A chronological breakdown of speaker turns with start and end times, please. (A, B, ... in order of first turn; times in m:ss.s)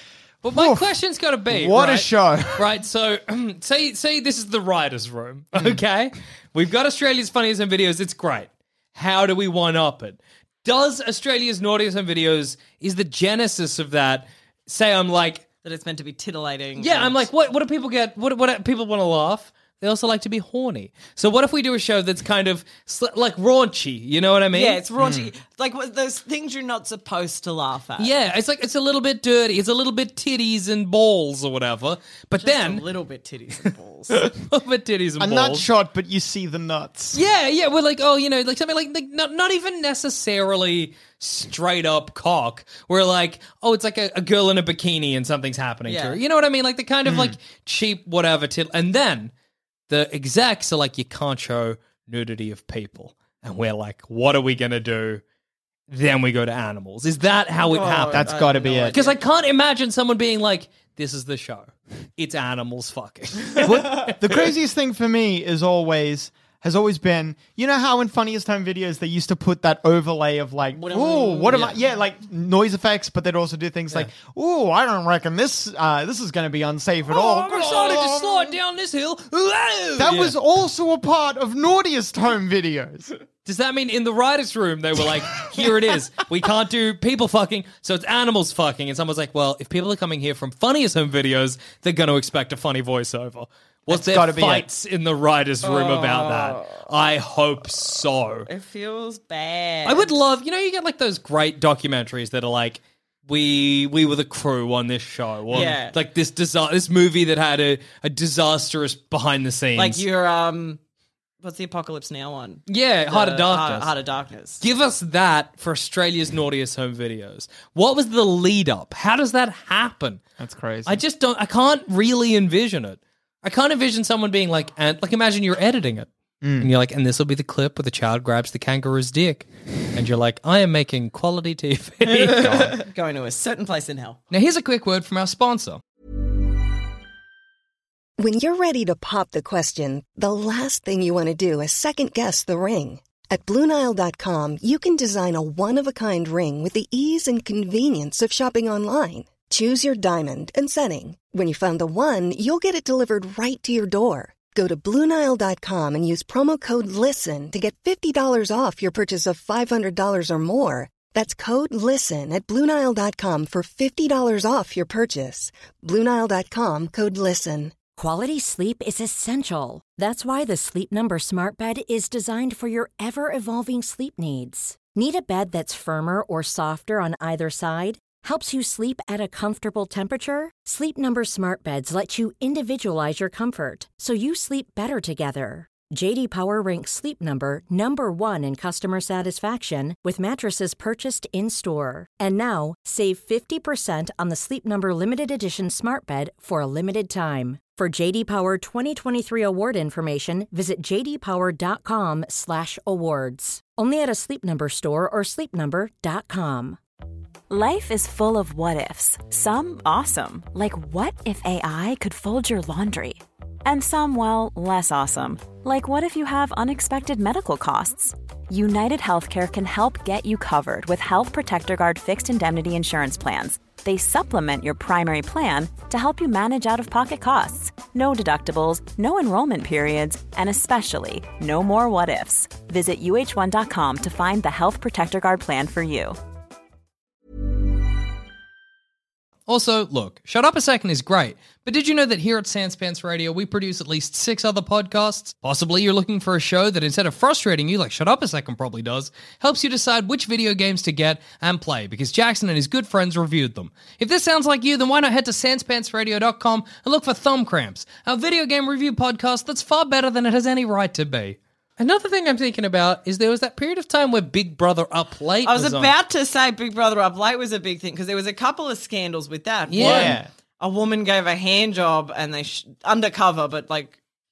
0:00.4-0:15.4 A
0:00.5-0:00.9 B
0:01.5-0:02.7 B
0:05.5-0:05.8 B
0:15.6-0:17.3 C
0:16.8-0:24.8 A
0:24.5-0:28.1 C
0:25.0-0:25.3 B
0:28.0-0:32.8 A
0:32.4-0:34.3 C
0:34.1-0:35.6 A
0:35.2-0:37.2 B
0:37.1-0:49.3 A
0:45.9-0:46.2 C
0:47.0-0:47.4 B
0:49.9-0:55.2 A
0:55.9-0:58.3 A
0:57.6-0:59.2 C
0:58.1-0:59.0 B
0:58.9-1:04.1 A
1:03.6-1:18.6 B
1:03.6-1:04.1 C
1:10.8-1:11.6 C
1:11.5-1:11.8 A
1:17.1-1:20.3 A
1:20.0-1:23.1 B
1:23.4-1:38.5 A
1:33.9-1:34.7 B
1:35.6-1:36.9 C
1:38.5-1:40.1 C
1:39.8-1:50.0 A
1:45.5-1:46.0 C
1:49.8-1:50.8 C
1:51.4-1:54.6 C
1:52.7-1:53.9 A
1:54.6-2:00.2 A
2:00.4-2:01.0 B
2:00.8-2:12.7 A
2:06.4-2:06.7 B
2:12.0-2:14.2 C
2:14.3-2:15.8 A
2:18.2-2:47.7 D
2:48.0-3:26.8 E
3:27.5-3:56.2 F
3:59.5-4:25.9 A
4:25.4-4:34.0 C
4:29.7-4:30.2 A
4:29.8-4:30.3 B